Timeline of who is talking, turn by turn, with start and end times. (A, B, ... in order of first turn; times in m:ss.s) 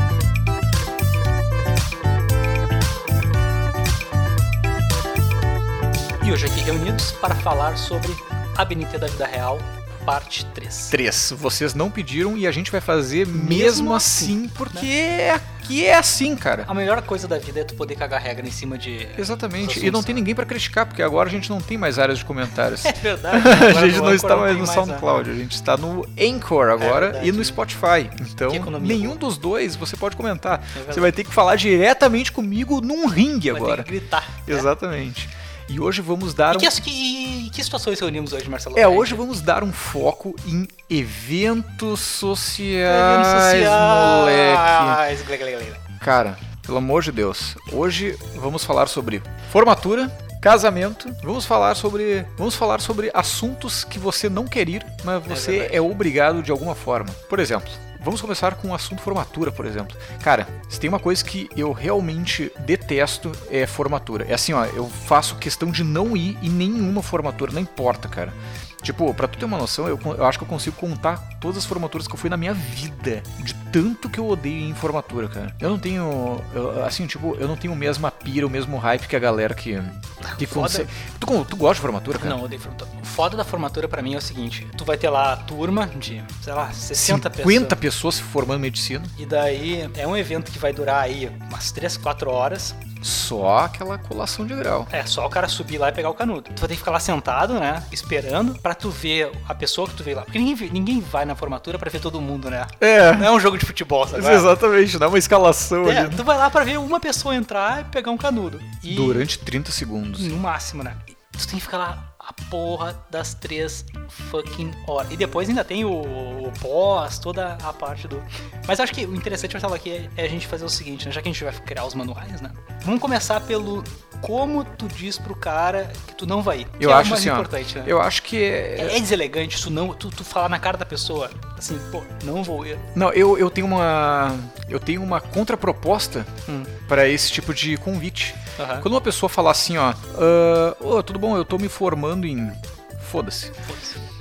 0:06.2-0:11.0 A
0:10.9-0:16.7 B
0:13.3-0:14.9 A
0:16.7-0:20.2 A
0:19.2-0:33.9 B
0:22.8-0:25.1 A
0:26.8-0:27.6 A
0:28.5-0:29.2 A
0:30.7-0:31.2 A
0:33.5-0:34.7 A
0:34.5-0:36.8 B
0:36.5-0:39.2 A
0:38.8-0:45.0 B
0:42.9-0:45.8 A
0:46.0-1:22.4 B
0:55.3-0:55.8 A
1:20.3-1:20.9 A
1:22.2-1:27.8 A
1:27.0-1:29.1 B
1:29.2-1:32.8 A
1:33.0-1:34.9 B
1:34.9-1:44.5 A
1:42.8-1:43.4 B
1:44.1-1:46.2 B
1:45.8-1:49.3 A
1:48.9-1:50.4 B
1:50.2-2:08.0 A
2:06.8-2:09.0 B
2:08.8-2:12.9 A
2:12.9-2:16.3 B
2:16.8-2:23.5 B
2:18.6-2:18.9 A
2:23.7-2:24.0 A